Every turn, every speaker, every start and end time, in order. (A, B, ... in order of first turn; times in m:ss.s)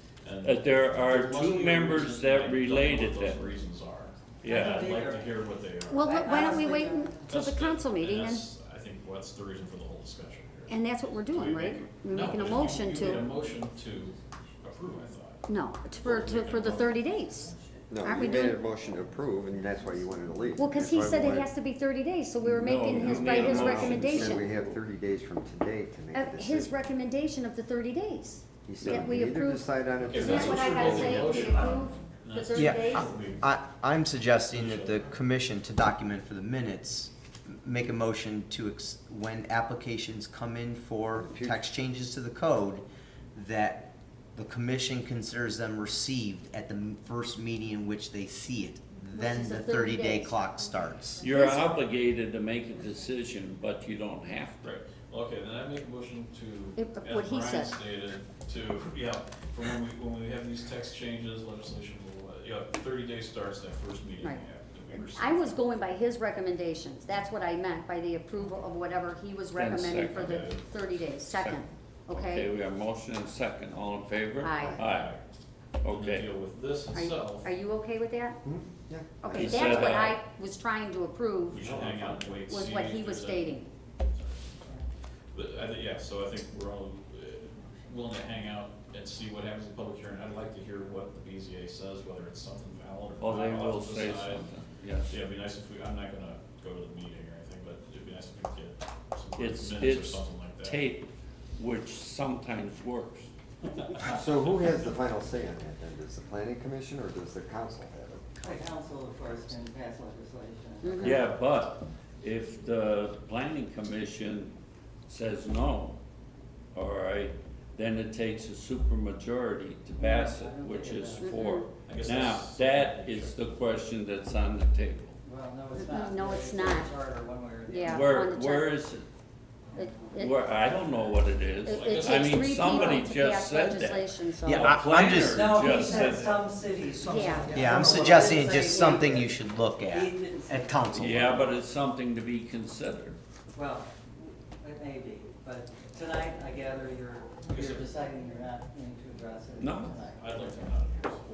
0:00.2-0:06.3 A
0:00.4-0:03.4 B
0:04.4-0:05.0 B
0:04.5-0:05.4 C
0:05.9-0:08.5 D
0:06.0-0:07.4 C
0:07.3-0:15.5 A
0:10.7-0:13.3 D
0:15.5-0:18.6 D
0:16.0-0:17.0 A
0:17.9-0:21.5 E
0:20.6-0:24.5 D
0:22.4-0:24.8 B
0:22.6-0:26.8 E
0:26.1-0:33.2 D
0:28.6-0:31.5 E
0:30.1-0:33.5 A
0:32.6-0:51.2 F
0:34.5-0:35.2 A
0:41.3-0:41.6 E
0:49.1-0:51.8 D
0:51.2-0:54.7 B
0:54.6-1:05.7 A
0:56.8-0:57.8 D
1:05.0-1:12.5 D
1:09.6-1:10.1 B
1:10.1-1:10.7 A
1:11.2-1:15.1 B
1:14.4-1:15.1 D
1:14.7-1:15.2 A
1:15.8-1:16.3 B
1:15.9-1:17.5 A
1:16.9-1:18.4 D
1:18.4-1:19.4 E
1:19.2-1:21.7 D
1:19.3-1:20.1 A
1:19.4-1:20.2 B
1:21.5-1:24.7 A
1:21.7-1:22.3 E
1:22.4-1:23.7 D
1:25.3-1:34.5 A
1:33.2-1:35.2 B
1:35.1-1:40.8 A
1:39.4-1:43.3 B
1:44.0-1:48.3 E
1:48.4-1:51.4 C
1:50.8-1:51.2 D
1:51.0-1:54.6 B
1:55.1-1:56.0 B
1:56.7-2:05.2 B
2:00.0-2:01.4 C
2:01.2-2:01.6 D
2:01.9-2:03.4 A
2:05.2-2:08.2 C
2:05.7-2:06.9 D
2:07.7-2:08.8 D
2:07.8-2:09.1 B
2:09.8-2:10.5 D
2:10.2-2:16.4 B
2:11.6-2:14.9 D
2:11.7-2:13.1 A
2:14.4-2:15.5 F
2:15.2-2:19.3 C
2:15.6-2:16.4 A
2:17.0-2:19.1 D
2:17.5-2:21.5 F
2:19.9-2:21.6 C
2:21.0-2:23.2 B
2:23.6-2:30.5 C
2:27.5-2:27.9 A
2:29.6-2:30.0 B
2:30.1-2:31.2 A